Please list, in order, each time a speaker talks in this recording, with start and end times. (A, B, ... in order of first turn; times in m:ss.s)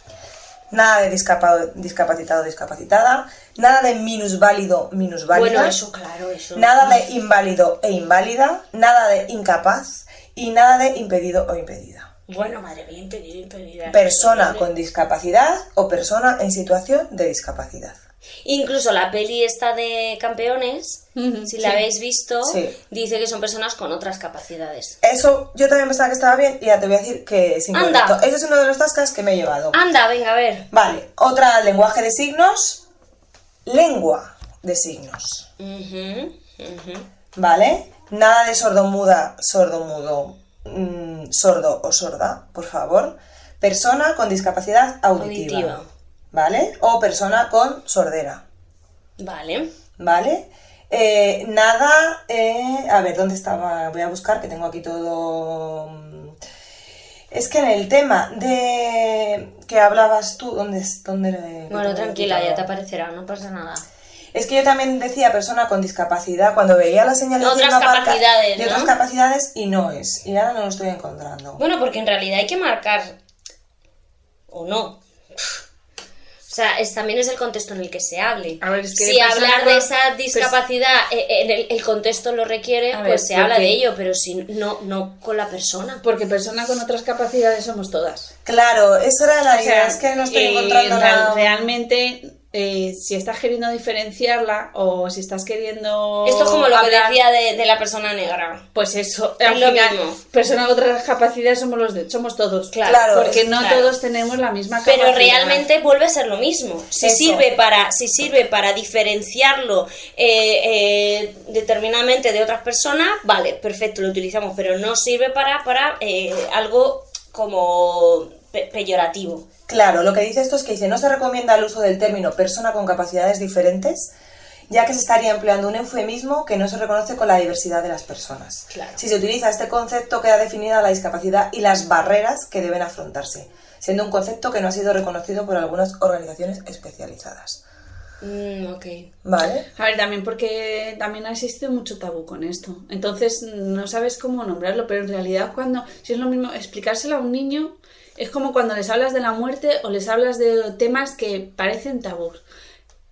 0:00.7-0:05.8 A
0:05.3-0:06.8 B
0:06.5-0:12.1 A
0:12.3-0:14.7 B
0:13.9-0:18.0 A
0:18.4-0:25.0 B
0:21.2-0:21.8 C
0:22.4-0:22.8 A
0:25.0-0:29.8 A
0:27.7-0:28.2 B
0:29.7-0:30.7 B
0:30.7-0:32.8 A
0:33.6-0:35.5 A
0:35.6-0:37.0 B
0:37.4-0:45.8 A
0:45.2-0:45.9 B
0:46.3-0:48.4 A
0:49.2-0:49.7 B
0:50.0-0:56.4 A
0:57.3-1:02.7 A
1:01.7-1:03.9 B
1:04.3-1:11.6 A
1:07.4-1:08.9 B
1:11.6-1:13.2 B
1:14.5-1:15.6 B
1:16.5-1:26.0 B
1:18.6-1:20.5 C
1:22.9-1:23.8 C
1:26.0-1:28.3 C
1:28.4-1:31.7 A
1:29.5-1:37.2 C
1:36.2-1:38.6 B
1:38.8-1:45.6 C
1:39.4-1:40.2 B
1:42.7-1:43.9 B
1:42.8-1:43.5 A
1:44.9-1:59.5 B
1:47.0-1:47.4 A
1:59.7-2:04.1 A
2:04.7-2:17.6 A
2:08.7-2:09.0 B
2:18.2-2:19.1 B
2:19.2-2:19.6 A
2:19.8-2:32.4 C